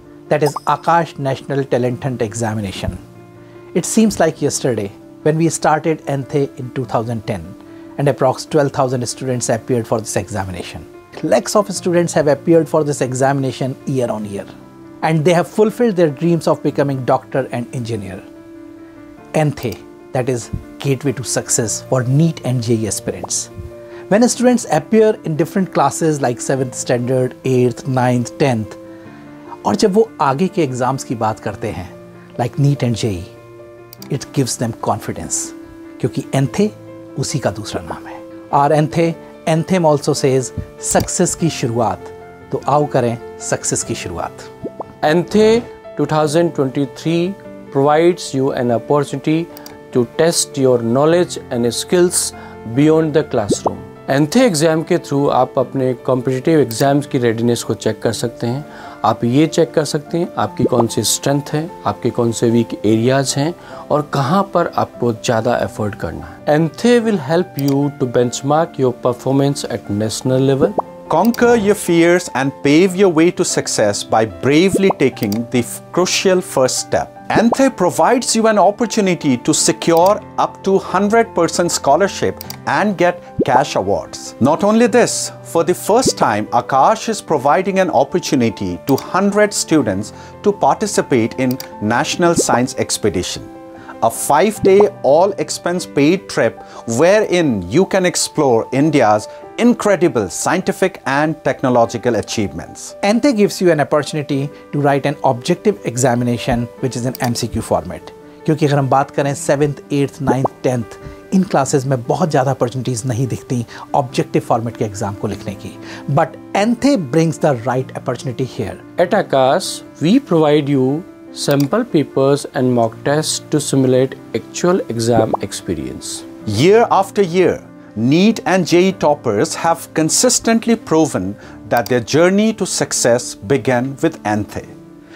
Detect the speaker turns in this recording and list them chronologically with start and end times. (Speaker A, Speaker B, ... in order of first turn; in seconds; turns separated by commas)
Speaker A: 0.3-3.0, Speaker A: 3.7-14.5, Speaker A: 15.0-18.2, Speaker A: 19.3-23.5, Speaker A: 24.1-28.8, Speaker A: 29.6-33.3, Speaker A: 34.1-44.5, Speaker B: 45.0-70.8, Speaker C: 71.1-93.5, Speaker C: 94.0-102.9, Speaker A: 103.0-118.8, Speaker B: 119.0-126.2, Speaker C: 126.5-134.7